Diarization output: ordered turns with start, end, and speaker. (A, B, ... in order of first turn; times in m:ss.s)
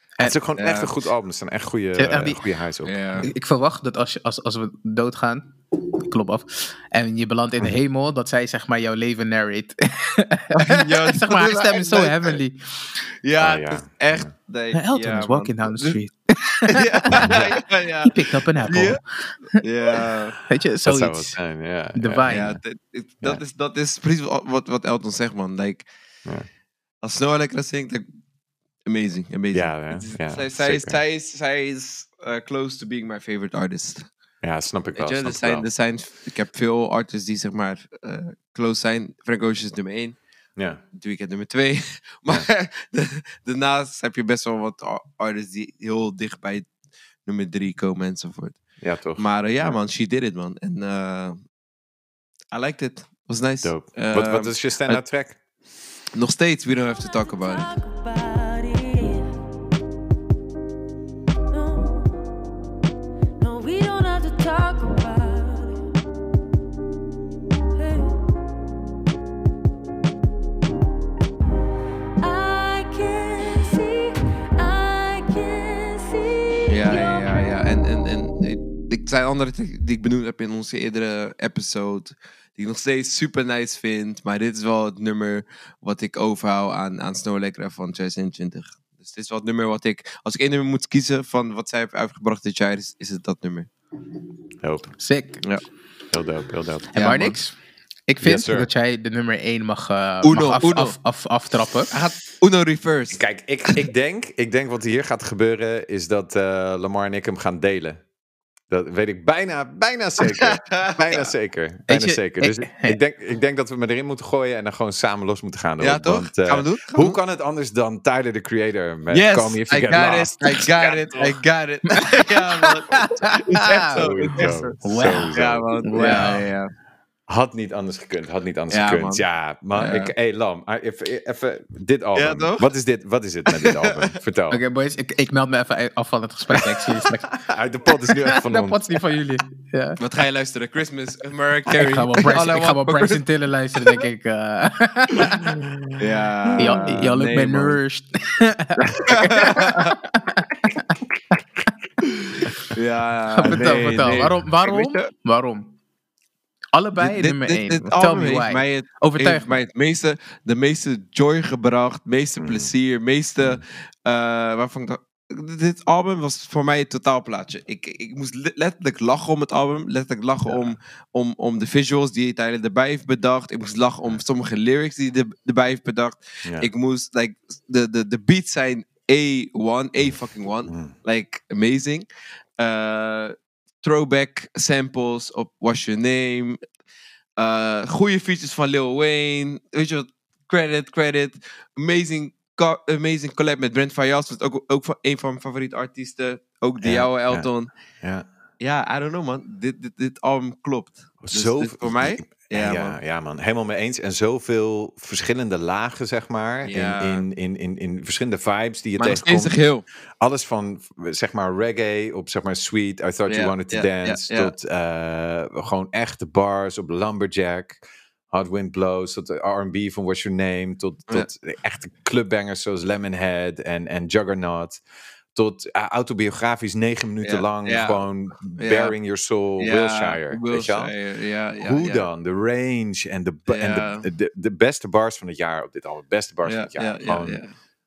0:00.2-0:02.9 A
0:00.6-0:00.9 B
0:02.0-0:02.4 C
0:02.8-0:03.3 B
0:03.2-0:12.6 C
0:10.6-0:12.4 B
0:13.2-0:16.0 B
0:13.4-0:14.3 A
0:14.7-0:17.3 C
0:16.7-0:19.0 B
0:17.2-0:17.5 A
0:18.0-0:19.0 C
0:19.5-0:20.4 B
0:20.5-0:21.4 C
0:20.8-0:22.4 A
0:21.9-0:22.6 C
0:22.3-0:25.9 B
0:27.0-0:28.0 B
0:28.8-0:34.1 B
0:29.5-0:31.0 A
0:34.4-0:35.7 A
0:34.9-0:40.2 B
0:40.6-0:40.8 A
0:40.9-0:46.7 B
0:47.2-0:48.6 B
0:48.8-0:49.7 A
0:49.2-0:51.4 B
0:52.5-0:55.0 B
0:53.6-0:55.4 A
0:56.1-0:57.7 B
0:57.0-0:59.4 D
1:01.5-1:02.3 D
1:03.4-1:05.8 D
1:07.8-1:08.2 D
1:12.2-1:17.3 D
1:16.7-1:33.7 B
1:34.6-1:34.9 A
1:35.0-1:35.4 C
1:36.1-1:37.1 A
1:36.9-1:41.9 C
1:37.0-1:37.4 B
1:38.2-1:38.7 A
1:40.2-1:40.9 B
1:41.9-1:43.8 B
1:43.1-1:48.0 A
1:48.7-2:01.4 A
1:50.4-1:51.3 B
1:51.9-1:53.0 C
1:55.8-1:57.2 B
1:59.1-2:06.7 B
2:02.7-2:04.0 C
2:03.9-2:06.4 A
2:04.8-2:06.4 C
2:07.3-2:14.6 A
2:08.7-2:09.2 B
2:09.7-2:10.1 B
2:12.1-2:12.6 B
2:13.5-2:14.1 B
2:14.5-2:17.2 C
2:17.3-2:18.8 A
2:18.2-2:20.0 C
2:20.0-2:23.2 B
2:21.7-2:25.5 C
2:25.6-2:25.9 A
2:26.0-2:27.8 B
2:26.6-2:31.0 C
2:26.6-2:27.0 A
2:29.1-2:29.9 B
2:32.7-2:35.1 B
2:33.4-2:35.7 C
2:33.5-2:34.2 A
2:36.7-2:39.6 C
2:37.0-3:02.0 B
2:42.4-2:42.7 A
2:50.4-2:50.7 A
2:56.4-2:56.7 A
3:00.0-3:00.9 A
3:02.6-3:06.6 B
3:07.4-3:17.7 B
3:16.8-3:17.5 A
3:18.0-3:18.3 A
3:18.6-3:23.0 B
3:21.2-3:29.6 A
3:26.6-3:27.2 B
3:29.0-3:29.8 B
3:30.2-3:37.8 A
3:33.3-3:34.5 B
3:38.3-3:44.8 A
3:45.3-3:50.9 A
3:47.2-3:48.9 B
3:49.6-3:52.0 B
3:51.6-3:57.4 A
3:53.5-3:54.0 B
3:56.4-3:57.5 B